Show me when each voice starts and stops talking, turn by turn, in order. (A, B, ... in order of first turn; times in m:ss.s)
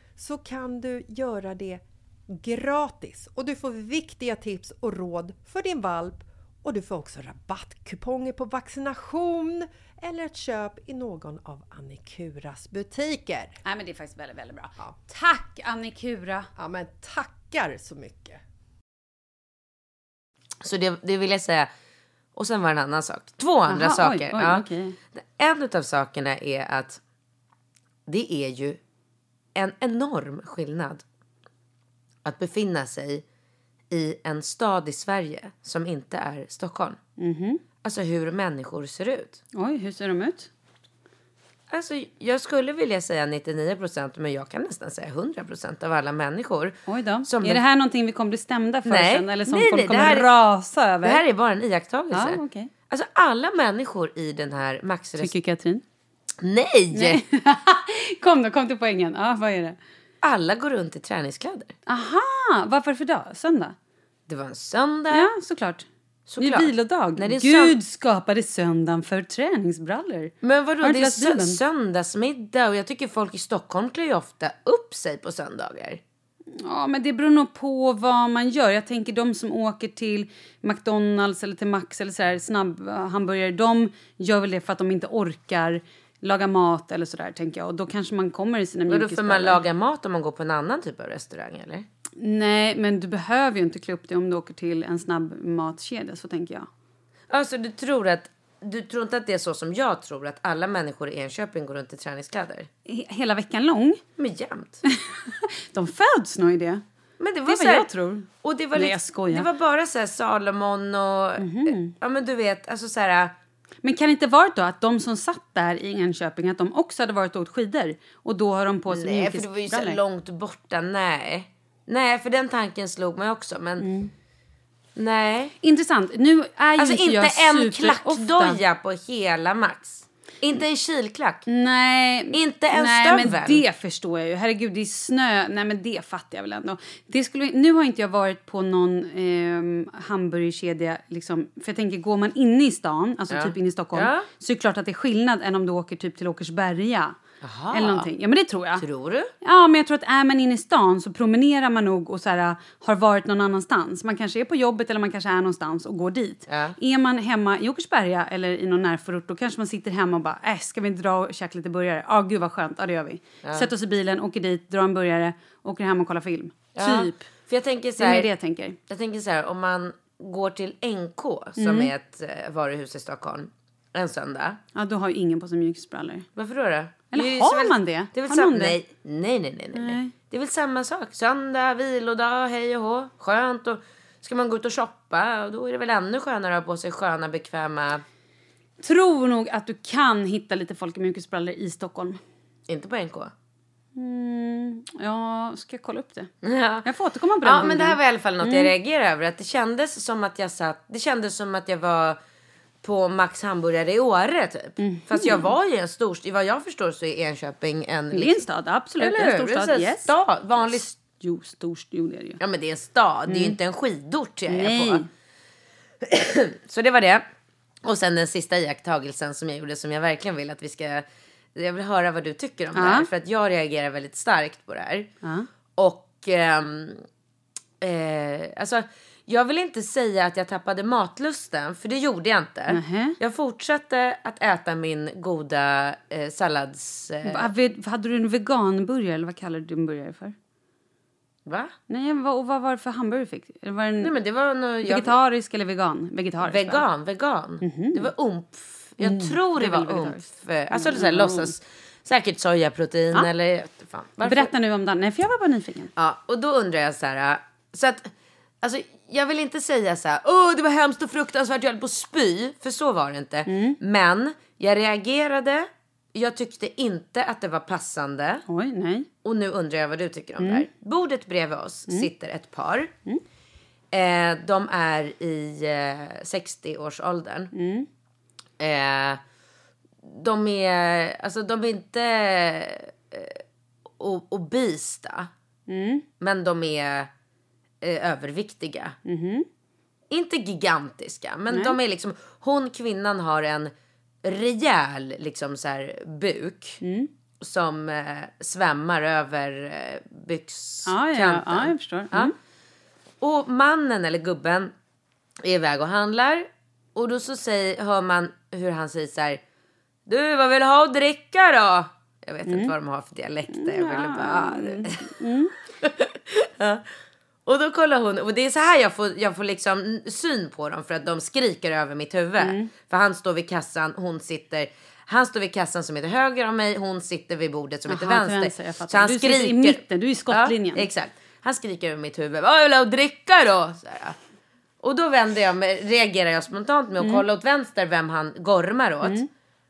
0:00.2-0:13.6 A
0:13.6-0:16.5 B
0:16.6-0:18.4 A
0:20.6-0:21.7 C
0:22.4-0:24.6 C
0:23.7-0:25.0 B
0:25.2-0:27.0 C
0:28.1-0:28.8 C
0:29.6-0:31.0 C
0:32.2-0:33.2 C
0:33.9-0:37.0 C
0:37.2-0:37.6 B
0:37.8-0:39.4 C
0:39.6-0:40.5 B
0:41.7-0:47.6 C
0:46.9-0:51.2 B
0:48.9-0:50.3 C
0:51.0-0:55.3 C
0:52.1-0:52.7 B
0:55.2-0:55.8 B
0:56.4-0:57.2 C
0:56.9-0:59.8 B
1:00.2-1:01.7 C
1:01.9-1:03.8 B
1:04.3-1:05.3 C
1:05.1-1:05.9 B
1:06.3-1:07.8 C
1:06.4-1:11.6 B
1:10.4-1:16.0 C
1:16.6-1:29.6 B
1:28.9-1:31.9 C
1:32.2-1:36.7 B
1:37.3-1:42.7 C
1:42.9-1:44.0 B
1:44.2-1:44.8 C
1:44.9-1:46.8 B
1:47.2-1:47.9 C
1:47.5-1:49.5 B
1:48.4-1:53.3 C
1:51.4-1:51.9 B
1:53.8-2:00.0 B
1:58.9-2:03.9 C
2:03.8-2:04.1 B
2:05.0-2:05.6 C
2:05.6-2:08.6 B
2:06.8-2:11.5 C
2:11.5-2:27.2 B
2:12.3-2:13.6 C
2:23.3-2:24.3 C
2:27.4-2:28.1 C
2:27.7-2:28.8 B
2:28.8-2:29.3 C
2:29.4-2:47.2 B
2:36.5-2:36.8 C
2:43.4-2:43.7 C
2:46.8-2:48.3 C
2:48.0-2:48.8 B
2:48.9-2:54.6 C
2:51.6-2:51.9 B
2:54.8-2:56.3 B
2:56.4-3:08.0 C
2:57.1-2:58.8 B
2:59.7-3:00.1 B
3:08.8-3:12.2 B
3:12.7-3:13.3 C
3:14.0-3:16.3 B
3:16.4-3:16.9 C
3:16.8-3:18.7 B
3:17.4-3:22.2 C
3:22.8-3:28.5 C
3:24.8-3:25.5 B
3:28.1-3:32.4 B
3:29.0-3:30.8 C
3:32.4-3:35.0 C
3:33.3-3:33.6 B
3:34.5-3:35.1 B
3:36.0-3:37.2 C
3:37.8-3:45.1 C
3:42.8-3:43.1 B
3:45.8-3:47.0 C
3:47.8-3:57.5 C
3:52.7-3:53.2 B
3:57.3-4:00.3 B
4:01.5-4:01.7 C
4:01.9-4:04.1 B
4:04.0-4:05.1 C
4:04.8-4:06.8 B
4:06.4-4:14.5 C
4:07.6-4:08.1 B
4:09.0-4:10.2 B
4:10.7-4:11.5 B
4:14.2-4:15.9 B
4:16.0-4:18.1 C
4:18.6-4:28.4 C
4:23.5-4:23.8 B
4:28.5-4:29.1 B
4:29.2-4:32.9 C
4:30.4-4:30.7 B
4:33.9-4:37.5 C
4:37.5-4:37.9 B
4:38.6-4:39.2 C
4:40.0-4:43.4 C
4:44.0-4:45.3 C
4:45.7-4:46.0 B
4:46.2-4:47.1 C
4:47.8-4:49.0 C
4:49.1-4:49.5 B
4:50.1-4:53.7 C
4:54.2-4:56.8 C
4:56.8-4:57.1 B
4:57.4-5:02.3 C
5:00.9-5:02.3 B
5:03.2-5:04.7 C
5:05.4-5:09.4 C
5:10.1-5:15.1 C
5:12.5-5:12.7 B
5:13.5-5:15.5 B
5:15.8-5:16.8 C
5:17.5-5:34.2 C
5:22.4-5:22.7 B
5:27.9-5:30.9 B
5:34.8-5:39.2 C
5:39.0-5:39.3 B